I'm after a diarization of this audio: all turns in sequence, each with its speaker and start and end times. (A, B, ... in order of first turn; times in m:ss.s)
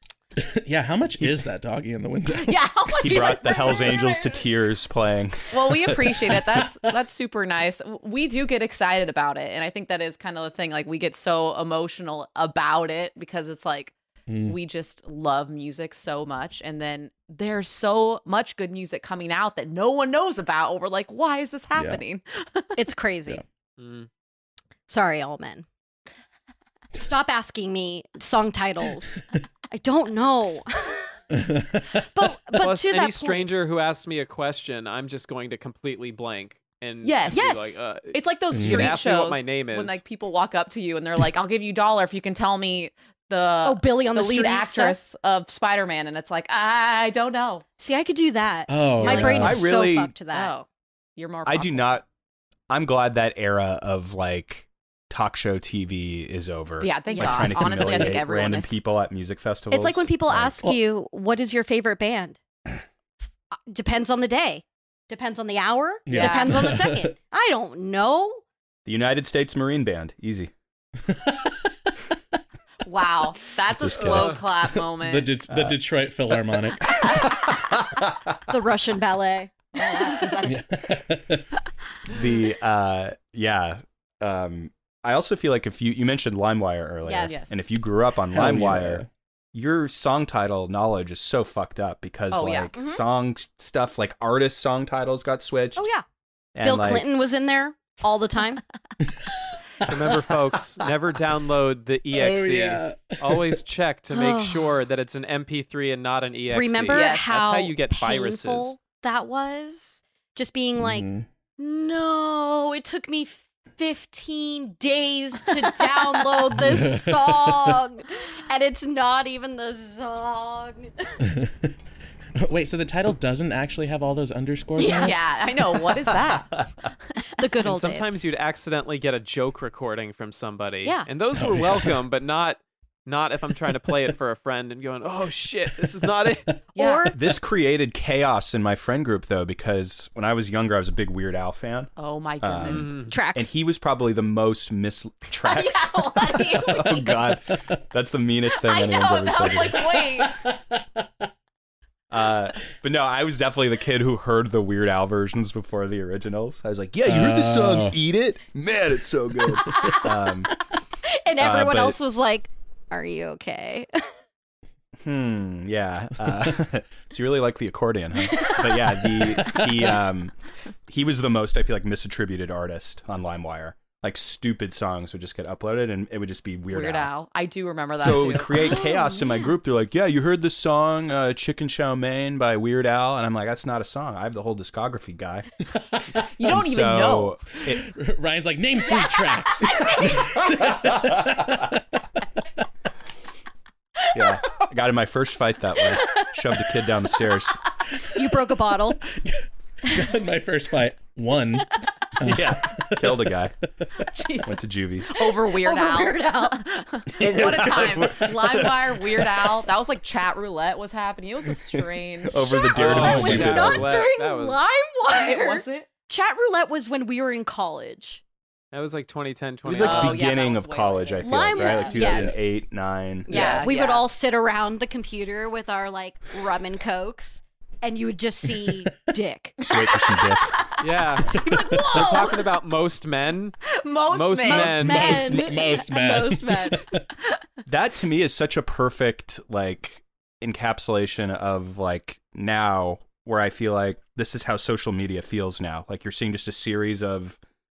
0:00.4-0:02.7 A
0:02.3-0:04.1 B
0:03.0-0:06.4 C
0:03.0-0:04.4 D
0:05.5-0:22.7 B
0:06.5-0:06.7 A
0:14.3-0:14.6 A
0:21.8-0:22.0 A
0:22.8-0:23.4 D
0:23.8-0:24.1 E
0:24.9-0:25.7 D
0:27.0-0:31.1 D
0:31.3-0:32.1 A
0:32.1-0:33.5 D
0:32.6-0:40.0 E
0:37.0-0:37.5 B
0:37.3-0:37.8 D
0:38.1-0:47.6 B
0:38.5-0:39.0 A
0:43.6-0:45.0 D
0:47.8-0:50.5 D
0:48.7-0:49.6 A
0:49.0-0:50.1 C
0:50.3-0:50.7 B
0:51.2-0:51.9 B
0:51.5-0:52.0 C
0:52.7-1:00.6 C
0:56.8-0:58.8 B
0:57.1-0:57.6 D
0:57.6-0:58.2 A
0:59.7-1:02.4 D
1:03.7-1:08.4 D
1:06.1-1:07.1 A
1:06.1-1:06.8 B
1:08.8-1:10.5 C
1:11.1-1:11.9 A
1:12.8-1:15.3 B
1:13.8-1:14.3 C
1:13.8-1:17.0 A
1:15.5-1:15.8 C
1:17.0-1:17.3 B
1:17.0-1:17.5 C
1:18.5-1:19.5 D
1:19.8-1:20.6 B
1:20.4-1:21.4 A
1:22.1-1:35.9 C
1:27.0-1:27.5 D
1:27.3-1:27.5 B
1:28.3-1:29.1 A
1:32.3-1:33.0 B
1:35.8-1:36.0 D
1:36.6-1:37.1 C
1:36.6-1:38.6 D
1:39.2-1:40.3 A
1:39.8-1:48.8 E
1:42.1-1:43.6 A
1:44.1-1:44.8 D
1:46.5-2:01.2 D
1:46.9-1:47.3 B
1:50.8-1:51.3 A
1:56.5-1:57.8 A
2:01.3-2:01.7 A
2:02.4-2:06.0 A
2:04.8-2:06.6 B
2:07.4-2:08.2 D
2:07.6-2:16.6 E
2:11.3-2:12.0 A
2:16.8-2:17.1 B
2:16.8-2:17.2 D
2:17.1-2:29.9 C
2:22.0-2:23.0 B
2:22.6-2:23.1 E
2:23.1-2:23.5 D
2:25.4-2:27.0 B
2:26.6-2:27.7 A
2:28.6-2:30.4 B
2:29.8-2:30.9 A
2:32.1-2:40.5 C
2:37.1-2:38.0 A
2:41.0-2:43.9 D
2:41.4-2:42.0 C
2:45.0-2:50.4 C
2:49.2-2:49.6 A
2:50.9-2:57.1 C
2:56.7-2:58.8 B
2:58.0-3:05.5 C
2:58.6-2:59.3 D
3:05.8-3:06.2 A
3:06.4-3:07.4 B
3:06.5-3:07.9 C
3:07.7-3:12.2 A
3:08.9-3:10.4 B
3:10.7-3:11.4 C
3:14.1-3:17.6 C
3:18.1-3:19.0 D
3:19.0-3:23.9 A
3:22.2-3:23.6 C
3:24.0-3:32.4 B
3:24.4-3:25.1 C
3:25.4-3:26.6 D
3:27.2-3:29.2 A
3:27.3-3:28.6 C
3:31.7-3:33.9 C
3:32.4-3:38.2 D
3:32.7-3:34.6 E
3:32.8-3:33.8 A
3:35.1-3:35.9 B
3:38.7-3:40.3 E
3:39.7-3:43.6 C
3:39.7-3:42.1 B
3:41.2-3:42.4 D
3:42.0-3:42.4 A
3:43.3-3:49.6 D
3:43.3-3:44.0 B
3:49.6-3:50.6 C
3:50.8-3:55.4 E
3:51.3-3:52.1 A
3:51.3-3:52.4 B
3:53.7-3:57.4 B
3:54.4-3:55.7 D
3:54.8-3:57.0 A
3:57.7-4:07.4 C